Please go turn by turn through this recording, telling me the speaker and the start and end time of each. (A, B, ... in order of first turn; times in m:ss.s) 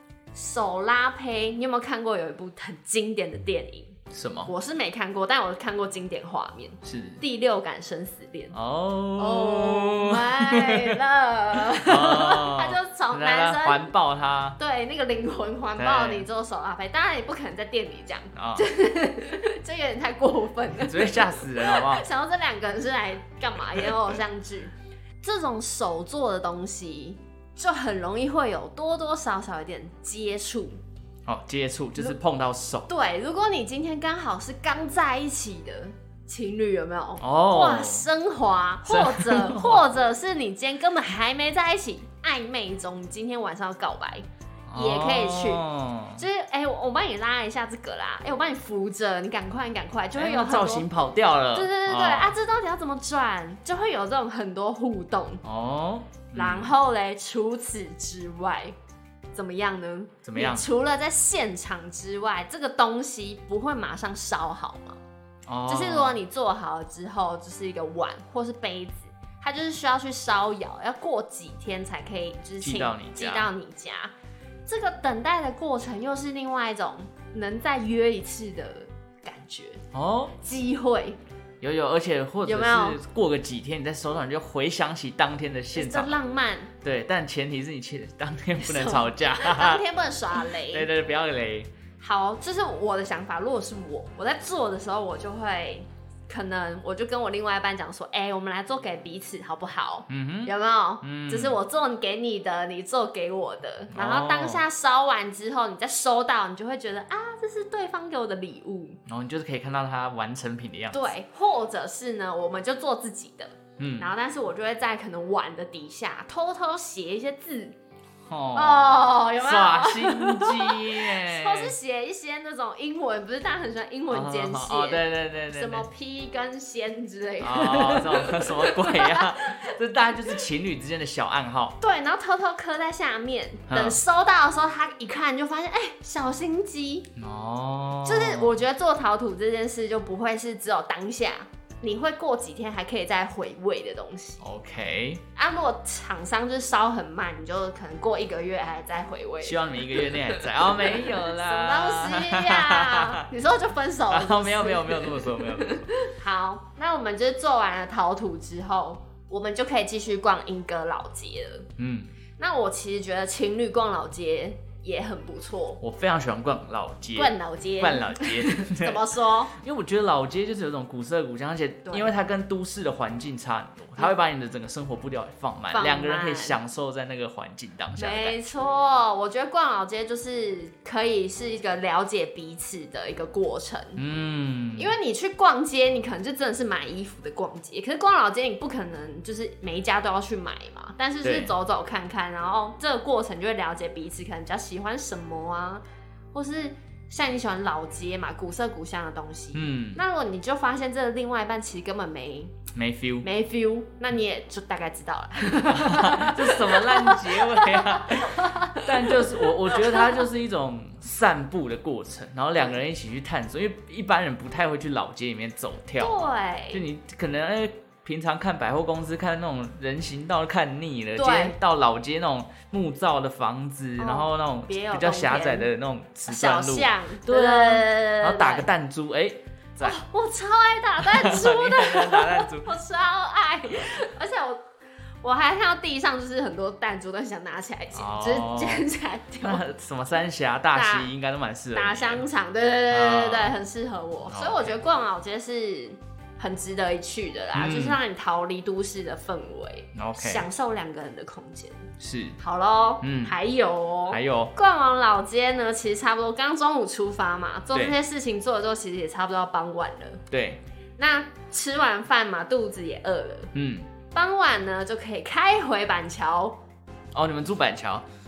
0:00.3-0:08.5 A
0:04.1-0:04.5 B
0:06.8-0:07.2 B
0:08.5-0:11.0 B
0:09.2-0:13.9 A
0:11.6-0:14.6 B
0:14.6-0:30.8 A
0:15.8-0:16.3 B
0:18.3-0:18.7 B
0:20.8-0:22.0 B
0:31.3-0:32.9 B
0:32.9-0:45.6 A
0:37.2-0:38.1 B
0:38.8-0:39.8 B
0:44.7-0:46.2 B
0:46.2-0:50.9 A
0:50.2-0:52.3 B
0:51.5-0:55.4 A
0:55.4-0:56.7 B
0:56.3-0:58.7 A
0:59.3-1:05.0 A
1:00.2-1:00.6 B
1:05.4-1:06.2 B
1:05.7-1:14.1 A
1:12.6-1:13.5 B
1:14.6-1:19.8 A
1:19.9-1:20.3 B
1:20.4-1:21.2 A
1:21.6-1:26.2 B
1:22.4-1:23.0 A
1:25.7-1:26.7 A
1:26.8-1:29.8 B
1:28.6-1:30.9 A
1:30.5-1:31.7 B
1:32.0-1:49.0 A
1:40.1-1:41.6 B
1:43.9-1:44.6 B
1:49.0-1:51.1 B
1:50.9-1:57.8 A
1:53.8-1:54.1 B
1:58.3-2:01.7 B
1:58.5-2:09.7 A
2:04.1-2:05.8 B
2:07.4-2:11.8 B
2:11.8-2:17.1 A
2:13.7-2:14.0 B
2:17.2-2:18.6 B
2:18.0-2:24.4 A
2:24.4-2:25.2 B
2:25.4-2:41.7 A
2:29.4-2:33.2 B
2:34.1-2:35.9 B
2:41.8-2:42.1 B
2:42.4-2:45.8 A
2:45.8-2:58.4 B
2:47.1-2:49.5 A
2:51.8-2:52.1 A
2:55.7-2:56.6 A
2:58.0-3:04.0 A
3:04.0-3:04.9 B
3:04.8-3:22.5 A
3:11.2-3:11.5 B
3:19.5-3:20.0 B
3:22.7-3:23.3 B
3:23.2-3:30.2 A
3:25.6-3:50.0 B
3:36.0-3:36.8 A
3:41.2-3:41.6 A
3:44.0-3:45.7 A
3:46.3-3:48.7 A
3:49.8-3:54.6 A
3:51.0-3:52.7 B
3:55.2-3:59.6 A
3:57.9-3:58.8 B
3:59.4-4:02.2 B
4:00.7-4:01.1 A
4:01.7-4:11.8 A
4:02.9-4:03.5 B
4:04.2-4:04.8 B
4:07.5-4:08.0 B
4:09.9-4:10.4 B
4:12.0-4:12.4 B
4:12.4-4:20.2 A
4:13.0-4:13.3 B
4:14.1-4:14.5 B
4:20.3-4:20.6 B
4:21.0-4:23.5 A
4:23.5-4:23.9 B
4:24.1-4:26.6 A
4:27.1-4:28.0 B